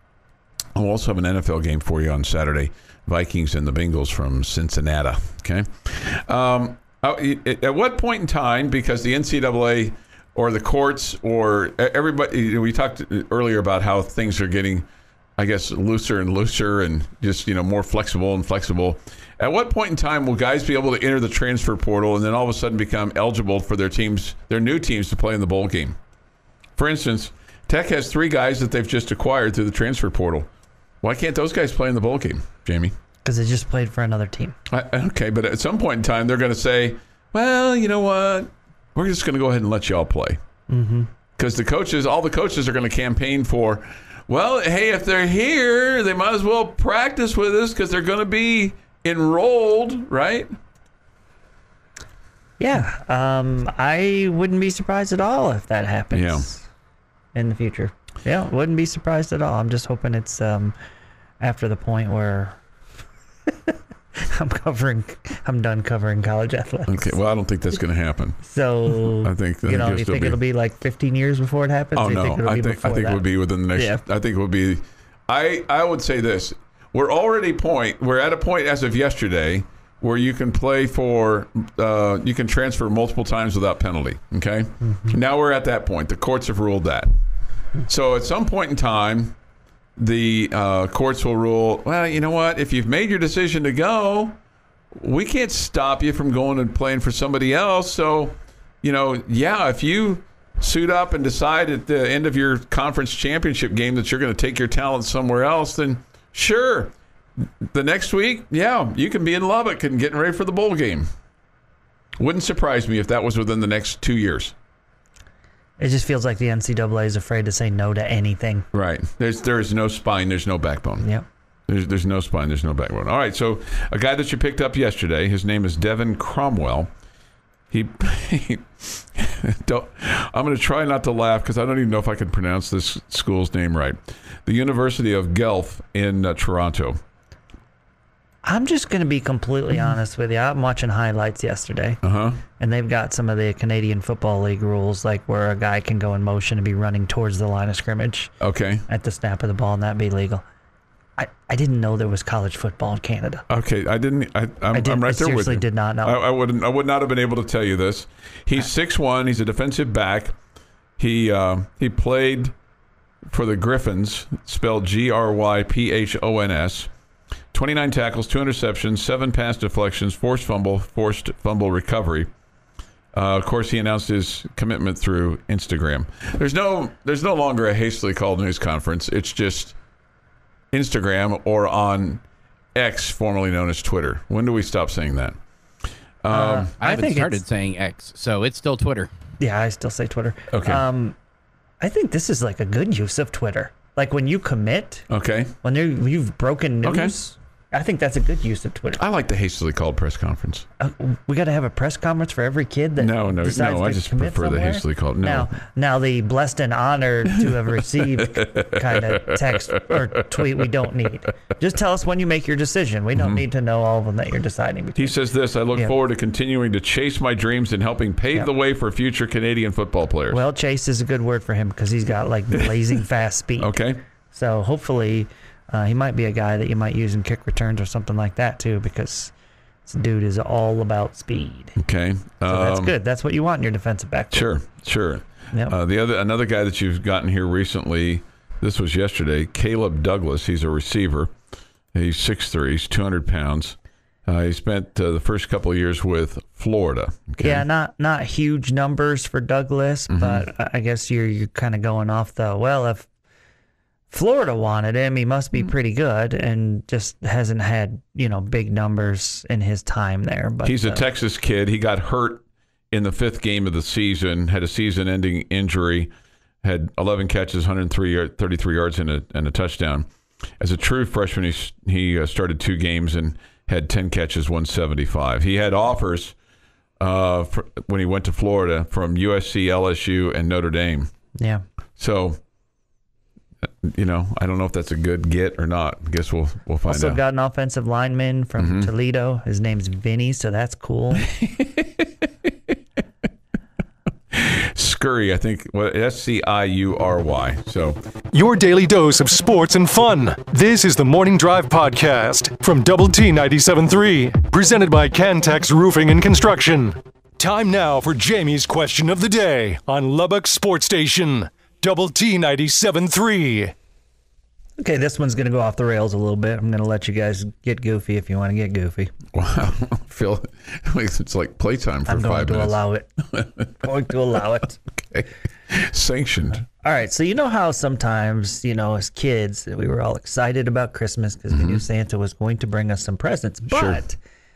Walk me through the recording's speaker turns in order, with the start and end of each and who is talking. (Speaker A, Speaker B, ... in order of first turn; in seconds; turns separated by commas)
Speaker A: 0.8-26.0, Speaker A: 26.8-30.5, Speaker A: 31.0-32.9, Speaker B: 33.2-34.6, Speaker A: 34.7-40.4, Speaker B: 40.7-41.1, Speaker A: 41.4-50.5, Speaker B: 52.6-56.6, Speaker A: 56.1-56.5, Speaker B: 57.4-60.8, Speaker B: 61.4-62.6, Speaker B: 63.7-67.2, Speaker A: 66.9-68.4, Speaker B: 68.4-73.2, Speaker A: 68.9-70.4, Speaker A: 72.0-87.1, Speaker B: 73.8-74.0, Speaker A: 87.9-89.4, Speaker A: 90.0-94.4, Speaker A: 94.9-111.1, Speaker A: 112.2-114.5, Speaker B: 115.8-118.7, Speaker A: 118.7-121.1, Speaker A: 121.7-126.9, Speaker A: 127.7-137.0, Speaker B: 138.4-142.0, Speaker A: 142.0-142.4, Speaker B: 142.6-148.3, Speaker A: 148.4-148.8, Speaker B: 148.9-150.4, Speaker B: 151.2-153.4, Speaker A: 153.5-160.4, Speaker B: 154.7-156.2, Speaker A: 161.0-162.6, Speaker A: 163.3-166.9, Speaker A: 167.5-172.3, Speaker A: 173.1-179.8, Speaker A: 180.7-182.2, Speaker A: 182.8-185.4, Speaker A: 186.2-186.7, Speaker B: 186.3-187.4, Speaker C: 186.8-189.1, Speaker B: 189.4-191.2, Speaker A: 190.5-190.8, Speaker B: 191.8-195.1, Speaker A: 195.1-195.6, Speaker B: 195.6-199.0, Speaker A: 196.8-197.1, Speaker A: 199.0-200.7, Speaker B: 200.8-215.2, Speaker A: 203.0-205.5, Speaker A: 207.3-210.6, Speaker A: 213.2-213.4, Speaker A: 215.0-220.4, Speaker B: 220.3-223.7, Speaker A: 223.6-224.0, Speaker B: 224.3-229.3, Speaker B: 229.9-231.8, Speaker A: 231.8-232.9, Speaker B: 232.5-234.5, Speaker A: 234.3-241.3, Speaker A: 241.9-247.7, Speaker B: 247.4-253.1, Speaker A: 250.1-250.5, Speaker B: 254.1-261.0, Speaker A: 260.6-266.1, Speaker A: 266.6-270.1, Speaker A: 270.6-276.4, Speaker A: 277.0-281.1, Speaker B: 281.4-281.6, Speaker A: 282.0-282.4, Speaker A: 283.6-287.2, Speaker B: 286.9-291.3, Speaker A: 288.6-288.9, Speaker A: 291.3-292.2, Speaker A: 294.3-298.0, Speaker D: 298.3-313.7, Speaker B: 314.8-319.1, Speaker A: 319.3-322.8, Speaker B: 322.1-323.2, Speaker B: 323.8-324.8, Speaker A: 325.0-326.6, Speaker B: 326.8-334.2, Speaker A: 331.5-331.8, Speaker A: 333.7-334.0